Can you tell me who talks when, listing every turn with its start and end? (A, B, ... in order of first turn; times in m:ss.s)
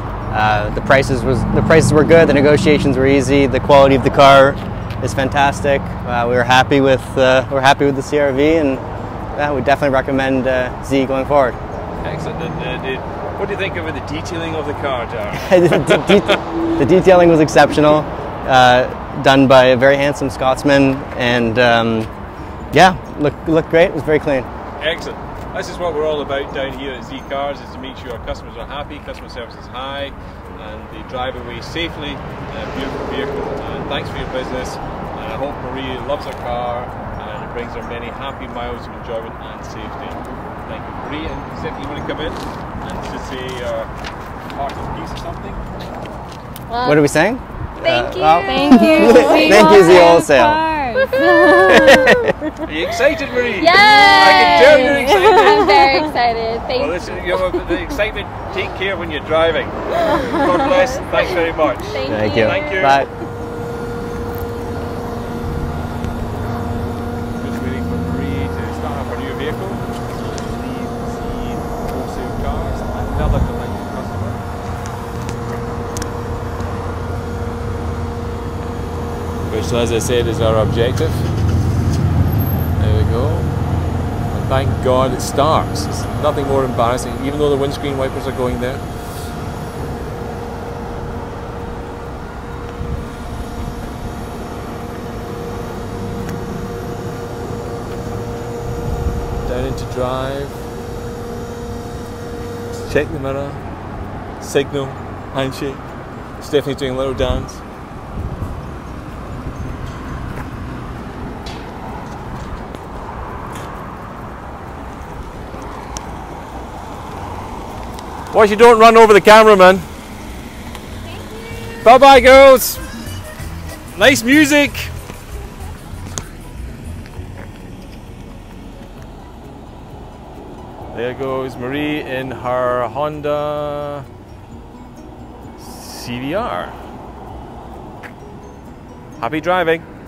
0:00.3-0:08.8 A
0:09.4-0:11.6 A
0:12.0-0:16.2 B
0:15.4-0:22.1 A
0:22.7-0:24.5 A
0:24.8-0:43.9 B
0:44.5-0:45.6 B
0:46.7-0:47.0 C
0:46.8-0:50.6 A
0:47.8-0:50.3 C
0:48.4-0:52.3 D
0:51.0-0:51.9 C
0:51.7-0:52.1 A
0:52.6-0:55.8 B
0:53.6-0:57.5 C
0:54.8-0:56.1 D
0:56.7-1:03.1 B
1:00.0-1:03.1 C
1:02.1-1:03.1 A
1:07.4-1:14.4 B
1:19.5-1:21.3 B
1:22.8-1:23.6 B
1:24.3-1:29.3 B
1:39.4-1:40.7 B
1:42.7-1:43.6 B
1:44.4-1:45.8 B
1:46.4-1:47.6 B
1:58.3-1:59.9 B
2:01.8-2:02.8 B
2:03.9-2:04.9 B
2:10.9-2:14.1 B
2:15.6-2:16.8 B
2:19.2-2:19.9 B